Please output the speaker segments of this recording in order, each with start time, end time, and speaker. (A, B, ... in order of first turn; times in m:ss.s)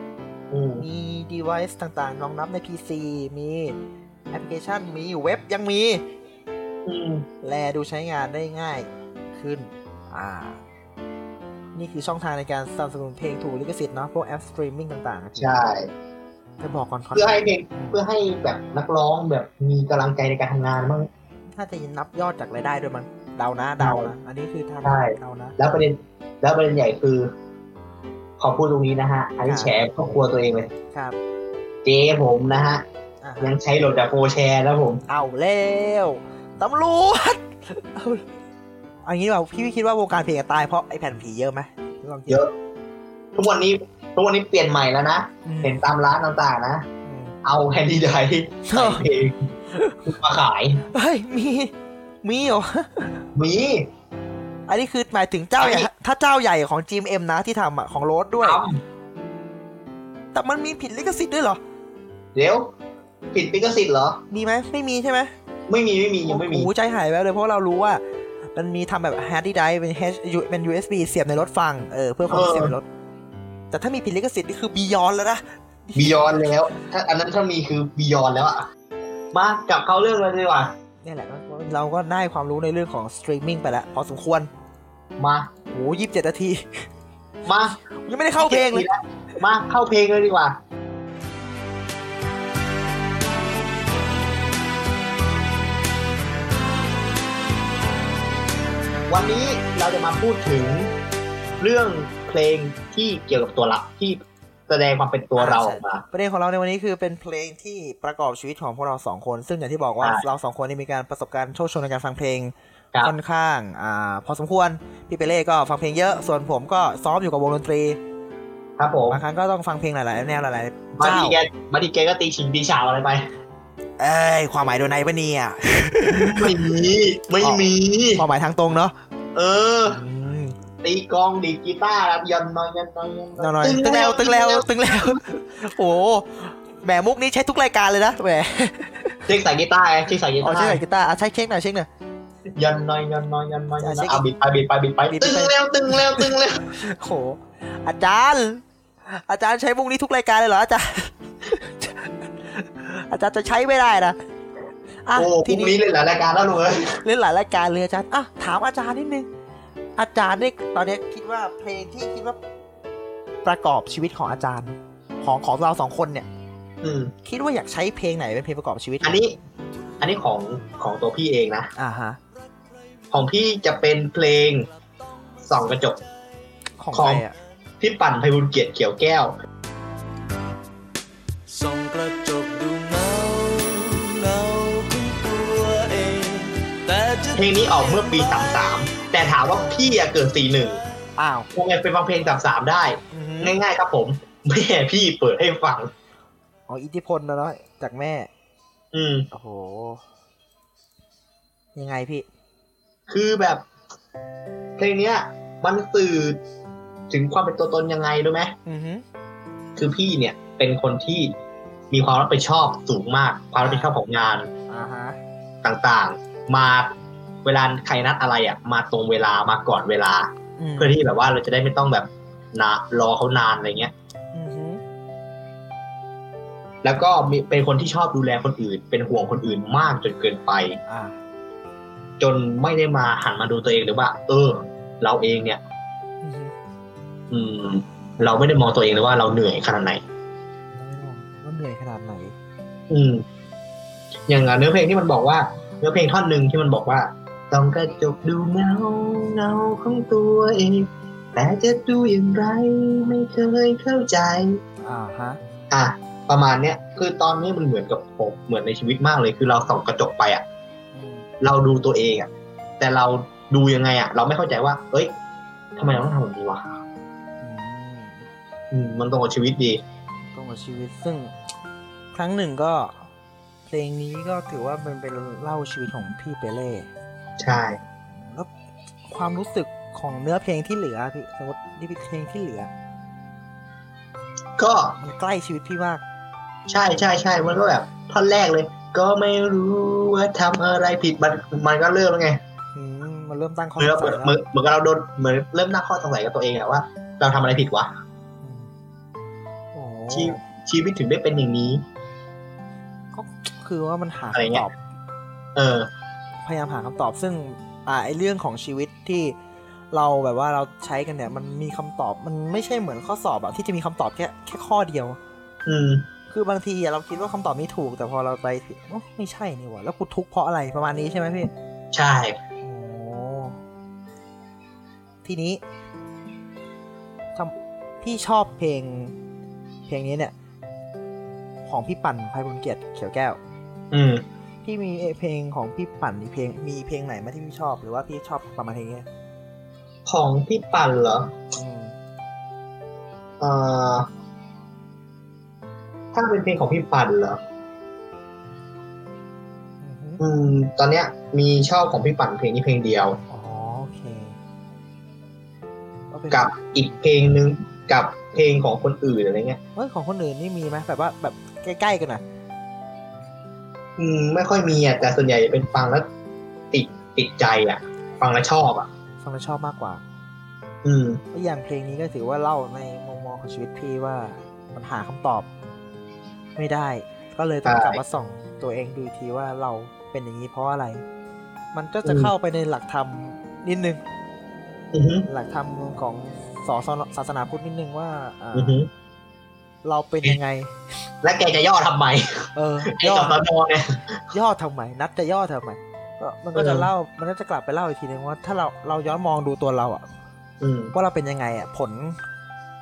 0:00.5-0:00.9 A
0:00.8-0:03.8 B
0:04.3-0:06.0 B
0:06.9-0:07.3 A
0:07.4-0:10.6 B
0:11.8-0:15.6 B
0:15.4-0:15.9 A
0:16.6-0:18.0 B
0:17.1-0:21.1 A
0:21.6-0:25.6 B
0:23.8-0:24.1 A
0:24.8-0:27.3 A
0:28.4-0:30.7 A
0:29.4-0:29.8 B
0:30.7-0:31.2 B
0:31.8-0:32.8 A
0:33.2-0:33.6 B
0:33.4-0:35.0 A
0:35.1-0:38.3 B
0:39.0-0:42.4 B
0:43.4-0:46.9 A
0:45.4-0:45.8 B
0:47.0-0:47.4 B
0:47.4-0:49.5 A
0:48.7-0:49.1 B
0:50.0-0:50.8 A
0:50.9-0:53.2 B
0:53.4-0:53.9 A
0:54.7-0:58.6 B
0:55.6-0:55.9 A
0:58.4-0:58.8 A
1:00.3-1:01.6 B
1:02.4-1:02.7 A
1:03.3-1:04.2 A
1:04.3-1:05.3 B
1:05.7-1:06.7 A
1:06.2-1:08.0 B
1:08.6-1:12.9 B
1:12.3-1:12.8 A
1:13.7-1:16.5 B
1:16.0-1:18.7 A
1:19.3-1:20.7 A
1:21.0-1:24.5 B
1:25.2-1:25.5 A
1:25.7-1:26.9 B
1:27.4-1:27.8 A
1:28.0-1:28.9 B
1:28.4-1:30.6 A
1:39.1-1:40.9 A
1:41.6-1:46.0 A
1:45.4-1:58.0 B
1:58.8-1:59.2 A
1:59.1-2:01.4 B
2:01.0-2:03.3 A
2:04.0-2:06.6 B
2:06.1-2:08.2 A
2:07.4-2:09.0 B
2:09.4-2:10.0 A
2:09.9-2:10.6 B
2:10.8-2:15.2 A
2:13.4-2:19.2 B
2:19.3-2:20.8 A
2:20.4-2:21.9 B
2:22.6-2:26.7 A
2:23.8-2:24.2 B
2:25.1-2:34.2 B
2:35.0-2:35.8 B
2:35.2-2:37.0 A
2:37.0-2:39.3 B
2:40.0-2:42.4 B
2:43.4-2:46.3 B
2:46.8-2:47.1 A
2:47.2-2:49.2 B
2:49.0-2:49.4 A
2:50.0-2:51.7 A
2:51.8-2:52.2 B
2:53.1-2:54.7 A
2:55.4-2:56.0 A
2:56.8-2:57.4 B
2:56.9-2:57.2 A
2:57.8-2:59.4 A
3:01.5-3:08.2 C
3:07.4-3:10.8 A
3:11.2-3:11.5 B
3:11.5-3:15.9 A
3:13.1-3:13.6 B
3:16.7-3:18.3 B
3:18.9-3:19.3 A
3:19.3-3:20.0 B
3:21.8-3:22.3 B
3:23.1-3:23.7 A
3:24.8-3:26.4 A
3:27.1-3:28.6 A
3:28.7-3:29.0 B
3:29.8-3:31.3 A
3:31.9-3:34.5 A
3:33.6-3:34.0 B
3:34.7-3:35.2 B
3:35.6-3:43.9 A
3:40.6-3:41.0 B
3:44.3-3:44.8 B
3:46.8-3:50.8 A
3:50.9-3:51.2 B
3:52.2-3:55.6 A
3:56.2-3:56.5 B
3:57.3-4:00.0 A
4:00.7-4:02.4 B
4:02.9-4:03.2 A
4:04.3-4:14.6 A
4:14.8-4:15.4 B
4:15.7-4:20.4 A
4:20.9-4:21.3 B
4:21.4-4:25.1 A
4:25.8-4:26.8 A
4:27.4-4:28.3 B
4:28.7-4:29.8 A
4:30.3-4:31.4 B
4:32.1-4:33.0 B
4:33.7-4:36.9 B
4:37.4-4:37.8 A
4:38.1-4:38.5 B
4:39.1-4:42.7 B
4:44.6-4:45.0 A
4:45.0-4:46.0 B
4:46.7-4:52.4 A
4:52.8-4:54.4 B
4:53.8-4:57.9 A
4:58.4-4:58.7 B
4:59.7-5:00.4 B
5:00.1-5:01.8 A
5:03.1-5:04.8 B
5:04.3-5:04.7 A
5:05.6-5:05.9 A
5:06.4-5:09.4 B
5:09.9-5:15.2 B
5:15.7-5:16.1 A
5:16.3-5:21.5 B
5:21.9-5:22.4 A
5:22.6-5:23.6 B
5:25.2-5:25.6 B
5:27.4-5:29.1 B
5:29.9-5:30.3 B
5:31.7-5:33.4 B
5:33.9-5:34.2 A
5:34.6-5:39.1 B
5:40.1-5:41.3 A
5:41.5-5:42.0 B
5:43.4-5:44.1 A
5:46.1-5:47.4 A
5:49.8-5:50.2 B
5:50.2-5:53.2 A
5:53.3-5:54.4 B
5:56.1-5:56.5 B
5:56.3-5:59.6 A
5:59.8-6:02.2 B
6:04.0-6:06.1 A
6:06.7-6:08.9 A
6:09.2-6:10.0 B
6:10.8-6:11.2 A
6:11.3-6:15.5 B
6:16.6-6:21.0 B
6:17.6-6:18.0 A
6:21.7-6:24.0 B
6:22.0-6:22.3 A
6:24.9-6:25.3 A
6:25.3-6:28.8 B
6:28.6-6:28.9 A
6:29.8-6:30.8 B
6:31.2-6:34.2 A
6:32.6-6:33.4 B
6:34.3-6:40.1 B
6:36.6-6:36.9 A
6:40.6-6:40.9 A
6:40.9-6:42.2 B